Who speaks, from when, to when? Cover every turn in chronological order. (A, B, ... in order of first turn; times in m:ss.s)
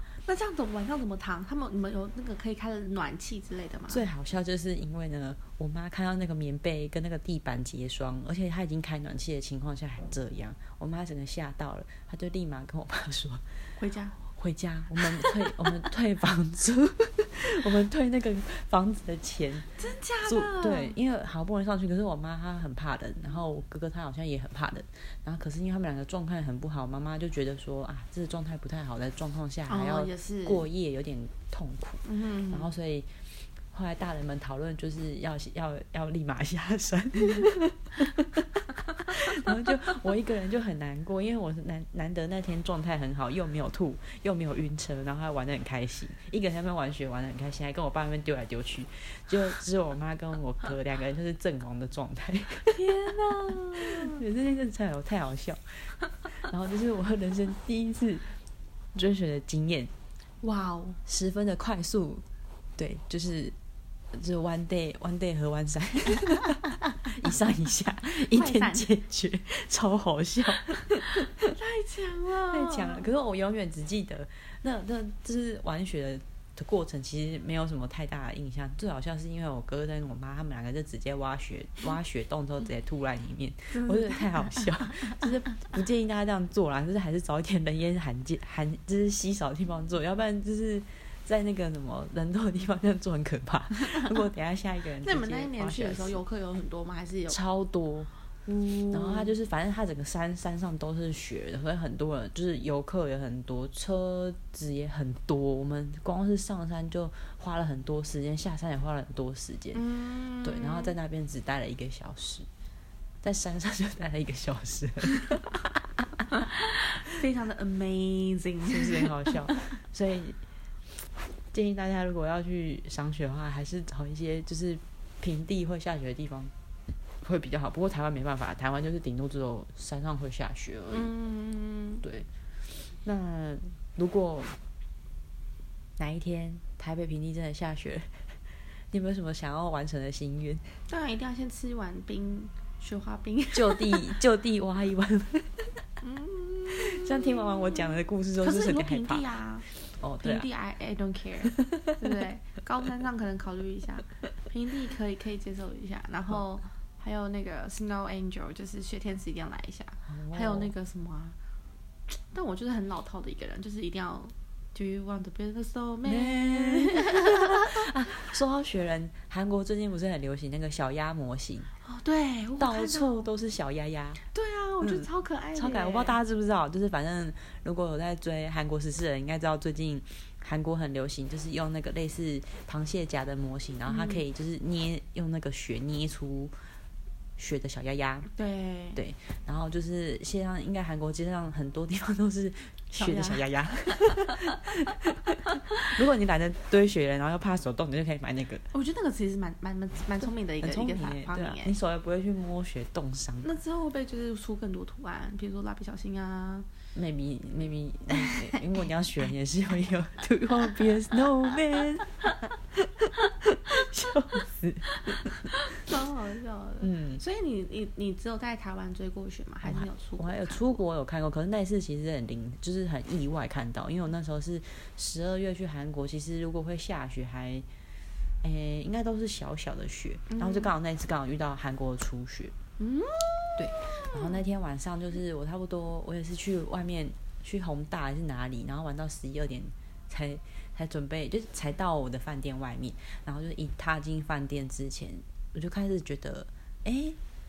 0:00.2-0:04.1 A
0:03.9-0:13.7 B
0:13.8-0:14.2 A
0:14.3-0:19.7 B
0:15.3-0:15.7 A
0:19.8-0:21.0 A
0:20.2-0:33.1 B
0:29.7-0:30.6 A
0:32.0-0:32.7 A
0:33.7-0:52.8 B
0:52.6-0:54.2 A
0:53.6-0:55.9 B
0:56.5-0:58.2 B
0:59.0-0:59.9 B
1:00.4-1:01.0 A
1:01.1-1:02.2 B
1:02.8-1:03.6 B
1:04.1-1:11.3 B
1:08.3-1:08.9 A
1:11.5-1:13.1 A
1:12.5-1:36.2 B
1:23.7-1:25.2 A
1:35.0-1:37.4 A
1:37.3-1:38.1 B
1:38.5-1:39.3 A
1:38.9-1:49.8 B
1:49.7-1:51.0 A
1:50.4-1:52.5 B
1:53.2-1:55.6 B
1:56.4-1:59.6 A
1:58.7-2:00.4 B
2:01.5-2:06.5 B
2:07.2-2:11.1 B
2:10.9-2:12.0 A
2:12.0-2:12.3 B
2:12.9-2:14.6 B
2:16.0-2:18.3 B
2:18.9-2:20.8 B
2:20.9-2:24.2 A
2:23.5-2:25.8 B
2:26.0-2:29.7 A
2:26.8-2:30.5 B
2:30.2-2:41.4 A
2:31.5-2:31.9 B
2:40.1-2:40.7 B
2:42.1-2:47.8 A
2:46.1-2:51.7 B
2:51.8-2:53.3 A
2:52.6-2:54.2 B
2:54.3-2:56.2 A
2:54.8-3:06.5 B
3:03.9-3:04.2 A
3:07.4-3:08.3 B
3:08.3-3:09.0 A
3:09.0-3:18.6 B
3:12.9-3:13.4 A
3:18.7-3:21.8 A
3:20.6-3:23.5 B
3:23.4-3:26.7 A
3:27.0-3:35.4 B
3:28.1-3:28.4 A
3:35.7-3:40.8 A
3:36.8-3:37.2 B
3:39.6-3:47.7 B
3:48.4-3:52.5 B
3:50.3-3:50.7 A
3:52.8-3:54.4 A
3:53.6-4:07.2 B